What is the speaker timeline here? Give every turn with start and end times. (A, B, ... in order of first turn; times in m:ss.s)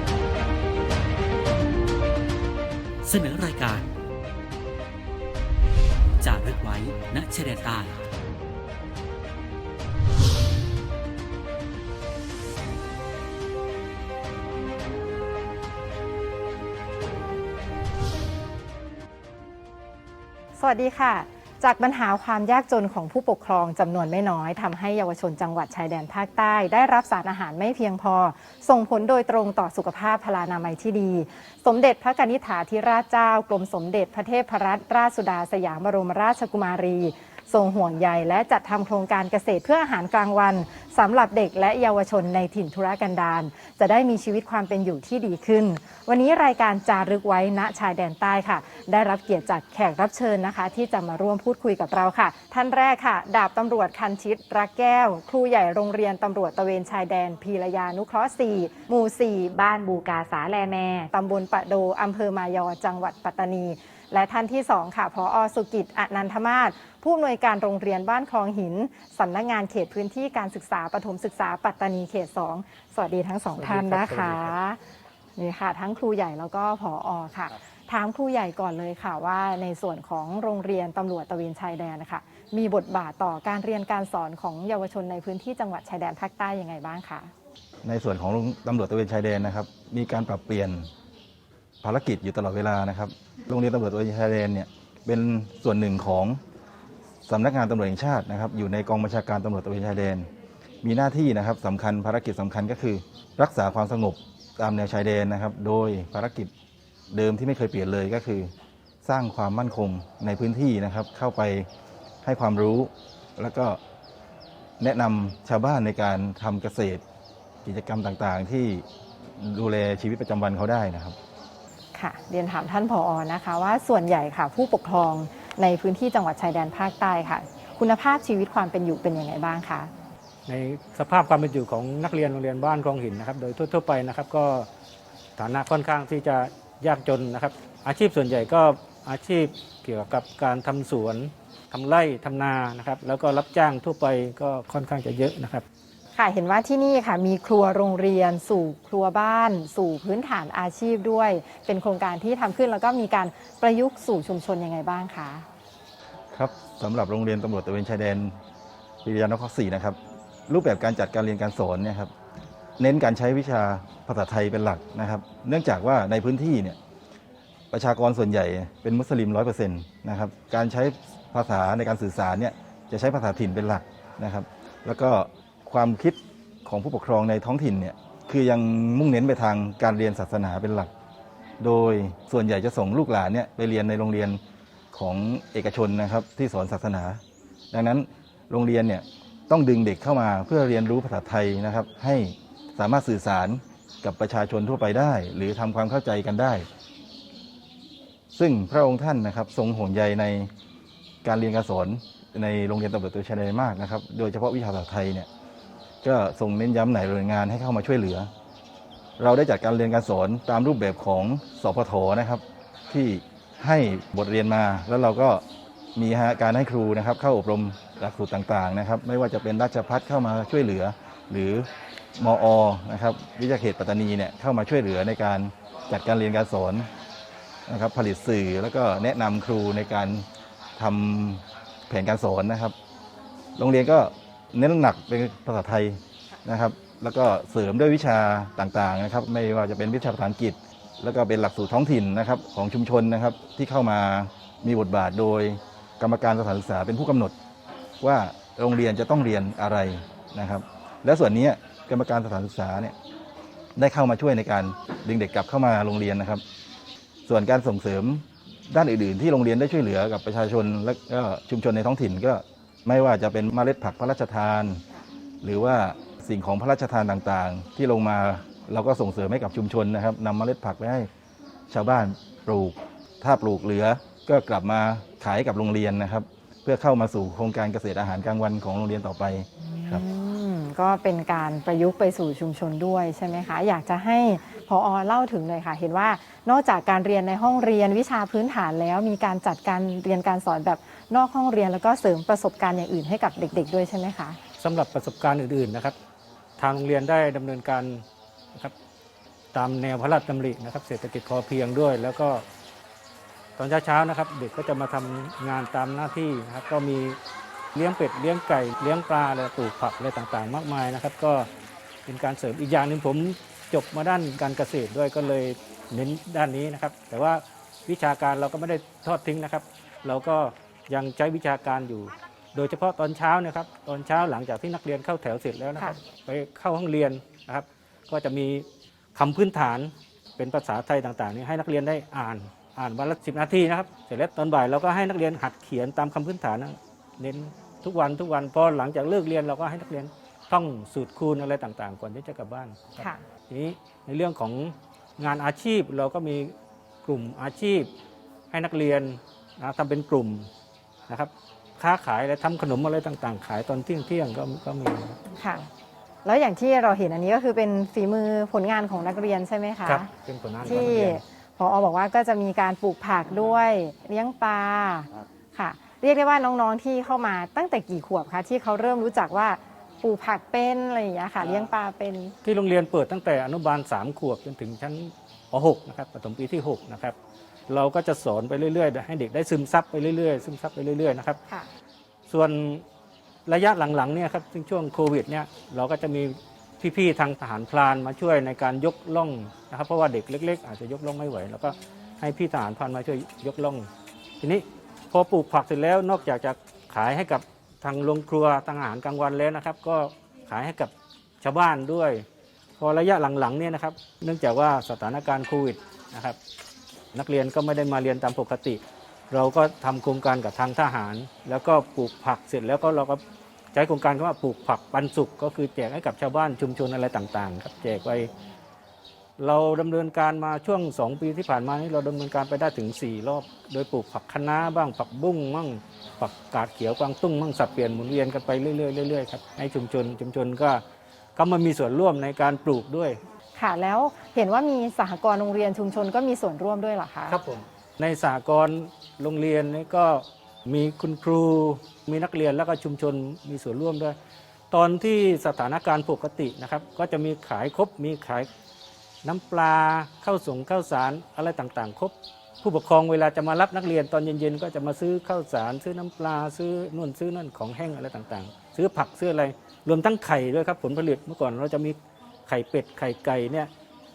0:03.0-0:03.9 A
0:06.2-0:08.0 A
0:20.6-1:14.8 B
1:13.6-1:14.5 C
1:15.4-1:27.3 B
1:27.8-1:30.9 D
1:31.8-1:36.4 D
1:37.3-1:40.3 D
1:40.8-1:46.5 D
1:47.1-1:48.5 D
1:49.0-1:51.7 D
1:52.2-1:53.8 D
1:54.8-1:57.0 D
1:57.6-1:58.8 D
1:59.4-2:01.2 D
2:02.0-2:09.9 B
2:10.5-2:14.7 C
2:15.4-2:25.6 C
2:26.2-2:35.5 B
2:36.3-2:38.3 D
2:39.0-2:40.0 D
2:40.5-2:42.1 D
2:42.8-2:46.8 D
2:47.7-3:00.9 D
3:01.6-3:04.4 D
3:04.9-3:07.2 D
3:07.7-3:16.7 D
3:18.3-3:20.5 D
3:21.2-3:25.3 D
3:26.0-3:28.3 D
3:29.2-3:35.4 D
3:36.0-3:46.9 D
3:47.7-3:50.2 D
3:50.8-3:52.7 D
3:53.6-4:07.3 D
4:08.0-4:13.0 D
4:13.8-4:16.4 D
4:17.3-4:24.8 D
4:25.4-4:31.1 D
4:31.7-4:40.0 D
4:39.6-4:54.4 B
4:54.6-4:56.0 C
4:56.6-4:58.0 C
4:59.5-5:02.4 C
5:03.6-5:07.2 C
5:07.7-5:11.5 C
5:12.1-5:47.9 C
5:48.5-5:50.5 C
5:51.1-5:55.2 C
5:55.4-5:55.7 B
5:56.2-6:00.1 B
5:59.9-6:01.2 C
6:00.6-6:12.3 B
6:12.4-6:17.2 C
6:17.7-6:21.4 C
6:22.3-6:22.8 C
6:23.5-6:33.9 C
6:34.4-6:42.3 C
6:42.8-6:46.4 C
6:47.1-6:53.2 C
6:53.7-6:58.3 C
6:59.4-7:10.8 C
7:11.4-7:13.2 C
7:13.6-7:17.4 B
7:17.3-7:24.2 C
7:24.7-7:28.5 C
7:29.2-7:43.7 C